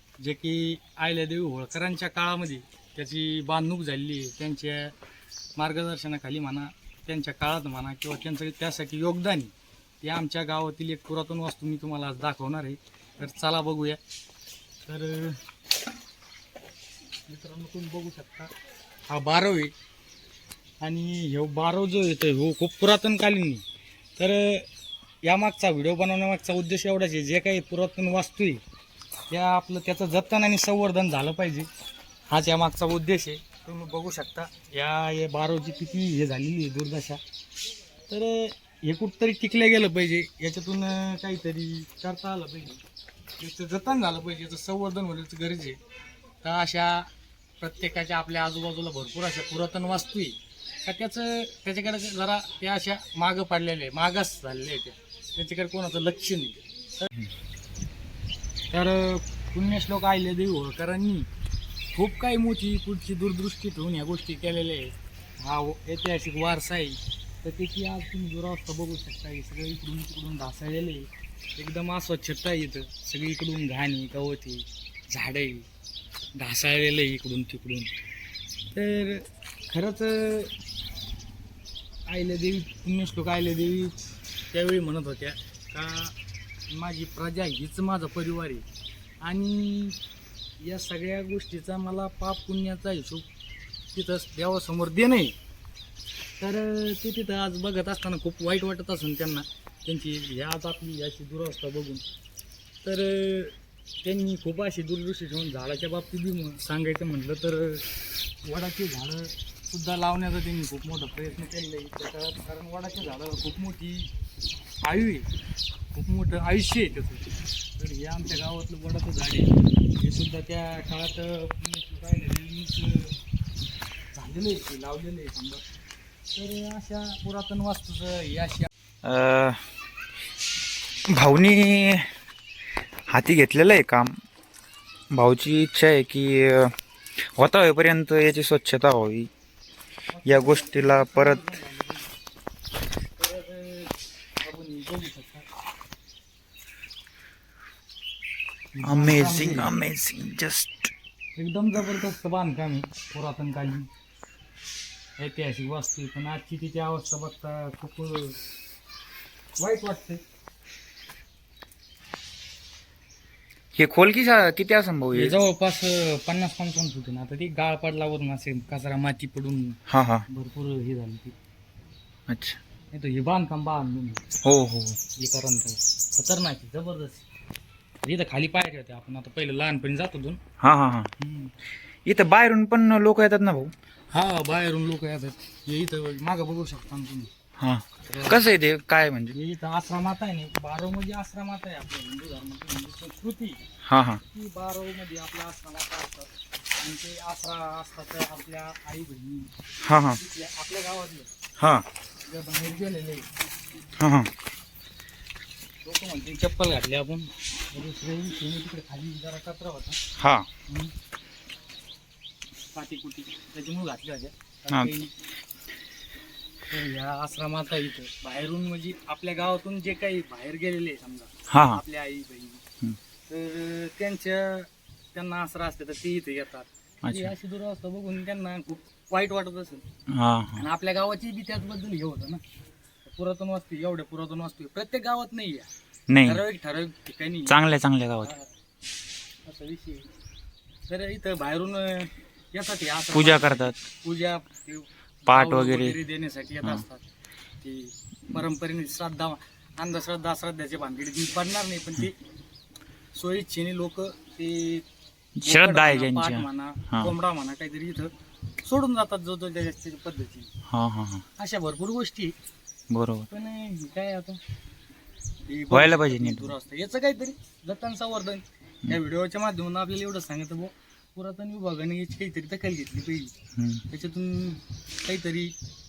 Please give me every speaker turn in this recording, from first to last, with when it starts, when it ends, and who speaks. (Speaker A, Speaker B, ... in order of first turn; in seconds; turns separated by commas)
Speaker A: 0.2-4.9, Speaker A: 5.6-14.0, Speaker A: 14.9-15.4, Speaker A: 17.3-18.5, Speaker A: 19.1-19.7, Speaker A: 20.8-23.6, Speaker A: 24.2-24.7, Speaker A: 25.2-28.6, Speaker A: 29.3-31.7, Speaker A: 32.3-37.2, Speaker A: 38.1-42.8, Speaker A: 43.4-45.8, Speaker A: 46.4-47.1, Speaker A: 47.6-57.1, Speaker A: 58.7-61.3, Speaker A: 62.0-75.7, Speaker A: 76.3-77.9, Speaker A: 78.7-80.5, Speaker A: 82.1-84.0, Speaker A: 84.5-86.2, Speaker A: 86.7-88.7, Speaker A: 89.2-90.0, Speaker A: 90.6-93.3, Speaker A: 93.9-95.3, Speaker A: 96.4-102.0, Speaker A: 102.8-107.8, Speaker A: 108.4-114.1, Speaker A: 114.8-115.3, Speaker A: 115.9-117.2, Speaker A: 117.8-123.2, Speaker A: 124.1-125.7, Speaker A: 126.3-128.7, Speaker B: 129.0-129.6, Speaker B: 131.1-132.1, Speaker B: 133.1-134.2, Speaker B: 135.1-139.3, Speaker A: 140.1-142.1, Speaker B: 140.3-141.4, Speaker A: 143.2-145.5, Speaker A: 148.8-149.7, Speaker B: 148.8-150.9, Speaker A: 151.4-153.9, Speaker A: 155.2-158.4, Speaker A: 159.6-160.2, Speaker B: 163.8-165.4, Speaker A: 165.1-169.8, Speaker B: 169.9-170.3, Speaker A: 170.3-171.4, Speaker B: 172.3-172.6, Speaker A: 172.9-174.2, Speaker B: 174.4-175.0, Speaker A: 175.2-177.3, Speaker A: 178.0-180.4, Speaker B: 180.6-181.1, Speaker A: 181.2-181.5, Speaker B: 182.1-183.7, Speaker A: 184.1-187.3, Speaker B: 187.6-189.4, Speaker A: 188.1-188.4, Speaker A: 189.3-193.6, Speaker B: 193.8-194.2, Speaker A: 194.2-199.5, Speaker B: 199.8-200.2, Speaker A: 200.1-201.3, Speaker B: 201.6-201.9, Speaker A: 202.2-203.3, Speaker B: 204.0-204.3, Speaker A: 205.8-210.0, Speaker B: 210.2-210.5, Speaker A: 210.7-210.9, Speaker A: 212.8-215.2, Speaker A: 216.7-222.6, Speaker B: 221.5-221.8, Speaker A: 223.3-229.8, Speaker B: 227.0-227.3, Speaker B: 230.1-230.7, Speaker A: 230.6-232.4, Speaker A: 233.0-235.7, Speaker B: 236.1-236.4, Speaker A: 236.2-237.6, Speaker B: 237.5-238.3, Speaker A: 238.2-238.5, Speaker A: 239.4-240.1, Speaker A: 240.9-247.0, Speaker B: 243.1-243.8, Speaker B: 245.3-246.0, Speaker A: 247.6-252.2, Speaker A: 253.1-254.9, Speaker B: 255.4-257.1, Speaker A: 255.4-258.1, Speaker A: 258.6-260.5, Speaker B: 260.7-261.2, Speaker A: 261.4-262.4, Speaker B: 262.9-263.3, Speaker A: 263.3-264.4, Speaker A: 265.5-273.3, Speaker B: 265.7-266.5, Speaker B: 273.6-273.8, Speaker A: 273.9-275.5